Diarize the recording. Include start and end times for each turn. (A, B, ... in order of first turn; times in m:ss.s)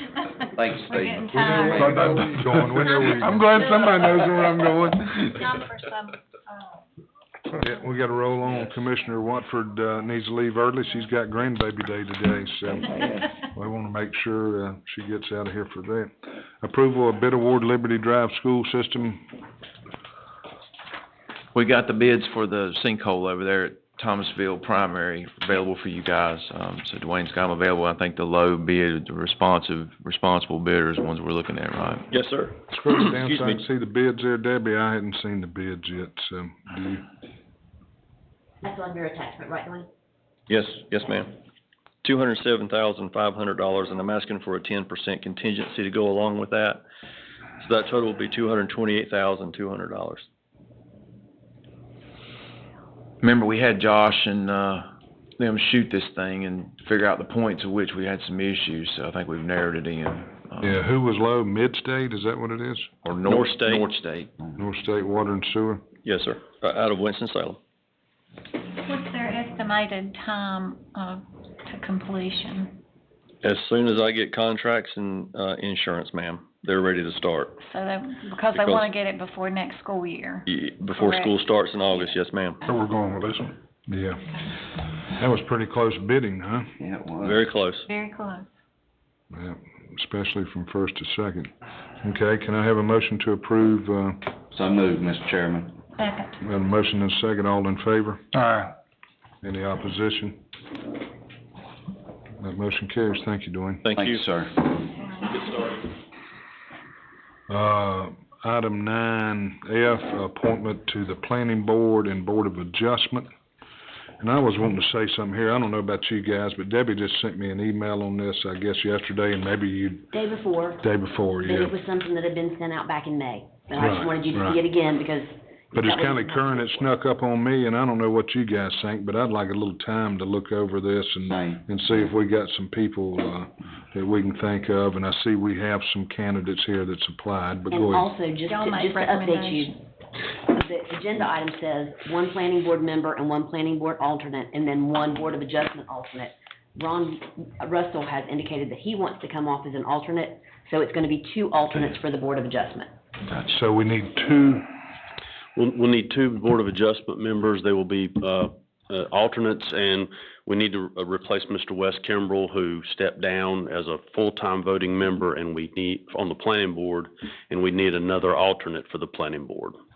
0:00.5-0:02.0 A
0:00.8-0:02.1 B
0:01.4-0:03.6 C
0:01.9-0:02.8 D
0:02.8-0:04.5 B
0:03.4-0:05.2 D
0:05.3-0:06.8 B
0:07.6-0:19.2 C
0:13.0-0:13.2 A
0:21.5-0:32.1 E
0:32.1-0:33.6 F
0:32.7-0:37.0 C
0:38.6-0:39.9 G
0:40.5-0:41.3 F
0:42.0-0:46.8 F
0:47.6-0:50.2 F
0:53.2-0:54.9 E
0:55.4-1:00.8 E
1:00.6-1:02.9 C
1:03.0-1:04.3 E
1:03.2-1:03.8 F
1:04.6-1:05.8 C
1:06.0-1:07.6 F
1:08.8-1:12.8 B
1:13.4-1:17.6 F
1:17.6-1:21.3 B
1:18.5-1:18.9 F
1:20.5-1:22.6 F
1:22.9-1:23.5 D
1:23.9-1:24.2 C
1:25.1-1:26.7 C
1:26.8-1:27.4 A
1:27.2-1:27.8 F
1:27.9-1:28.5 B
1:29.3-1:31.5 C
1:32.0-1:34.2 C
1:34.5-1:35.8 A
1:36.0-1:36.3 B
1:36.4-1:38.2 C
1:38.3-1:38.7 D
1:39.4-1:40.4 C
1:42.4-1:43.9 C
1:43.8-1:44.2 F
1:43.9-1:44.8 A
1:45.0-1:45.3 B
1:45.3-1:45.8 F
1:47.5-1:53.3 C
1:54.2-2:00.1 C
2:00.1-2:00.8 G
2:00.8-2:01.8 C
2:01.4-2:06.9 G
2:03.8-2:04.6 C
2:05.7-2:18.1 C
2:11.3-2:11.6 A
2:17.7-2:19.8 G
2:18.5-2:19.8 B
2:20.5-2:32.9 G
2:33.4-2:34.7 C
2:35.6-2:49.8 H